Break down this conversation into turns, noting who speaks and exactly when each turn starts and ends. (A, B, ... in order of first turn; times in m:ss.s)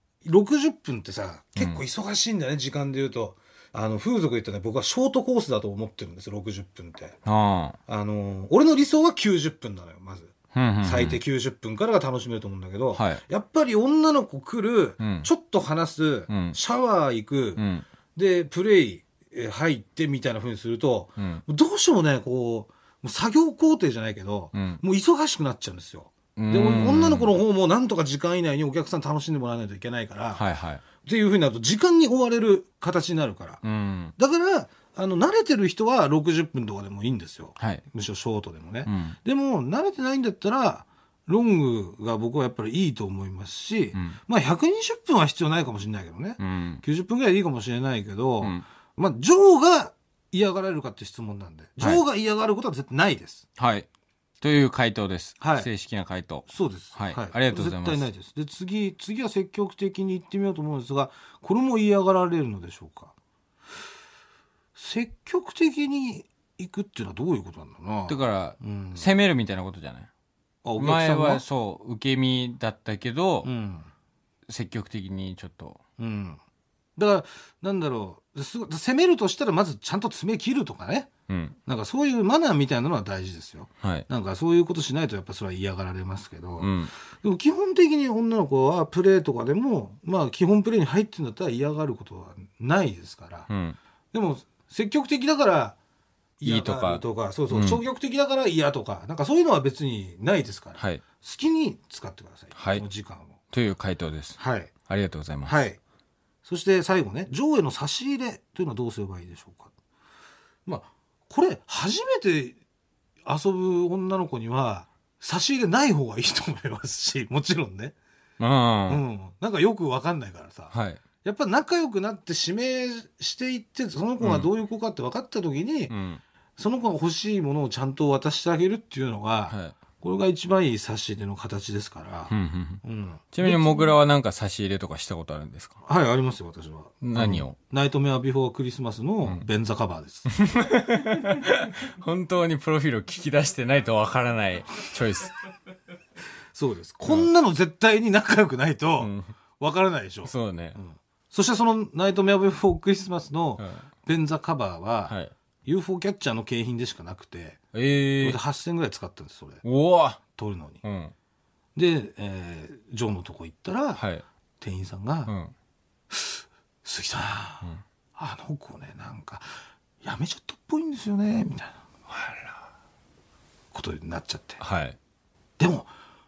0:00.2-0:07.2 A
0:07.2-0:07.8 B
0:07.9-0:17.6 A
0:10.5-0:11.2 B
0:12.9-0:13.2 B
0:15.0-0:15.3 B
0:16.3-0:16.6 B
0:17.6-0:17.8 B
0:18.2-0:30.4 A
0:21.2-0:21.4 B
0:24.5-0:24.8 B
0:26.4-0:27.3 B
0:30.3-0:30.8 B
0:31.0-0:33.6 A
0:33.6-0:34.1 B
0:34.2-0:53.4 A
0:38.8-0:39.2 B
0:46.4-0:46.8 B
0:53.6-0:53.9 B
0:54.4-0:58.1 B
0:55.4-0:55.7 A
0:56.5-1:03.1 A
1:04.8-1:09.1 A
1:08.1-1:10.1 B
1:10.6-1:11.4 A
1:10.8-1:13.5 B
1:13.4-1:13.9 A
1:14.5-1:15.8 B
1:16.0-1:16.4 A
1:17.0-1:21.1 A
1:21.3-1:21.6 B
1:21.6-1:33.5 A
1:26.6-1:26.9 B
1:33.5-1:33.8 B
1:34.1-1:35.8 A
1:36.4-1:43.4 A
1:36.4-1:37.8 B
1:40.8-1:41.0 B
1:42.5-1:42.8 B
1:43.5-1:45.6 B
1:44.4-1:44.7 A
1:45.4-1:45.8 A
1:46.4-1:49.7 A
1:50.6-1:52.6 A
1:53.2-1:57.9 A
1:58.4-1:59.0 B
1:58.9-2:05.9 A
2:00.7-2:01.0 B
2:04.2-2:04.5 B
2:05.9-2:06.2 B
2:06.6-2:13.9 A
2:09.5-2:09.8 B
2:12.3-2:15.8 B
2:15.8-2:20.3 A
2:17.0-2:17.6 B
2:20.3-2:25.4 B
2:26.5-2:37.6 A
2:29.0-2:29.3 B
2:30.2-2:30.8 B
2:33.6-2:33.8 B
2:35.1-2:35.3 B
2:37.7-2:38.4 B
2:38.2-2:39.6 A
2:39.6-2:40.2 B
2:40.3-2:40.8 A
2:40.8-2:41.1 B
2:41.7-2:44.0 A
2:44.0-2:44.2 B
2:44.6-2:45.3 A
2:45.3-2:45.5 B
2:46.1-2:49.5 A
2:50.0-2:51.8 A
2:52.1-2:52.5 B
2:53.7-2:54.6 A
2:54.6-2:55.0 B
2:55.6-2:55.9 A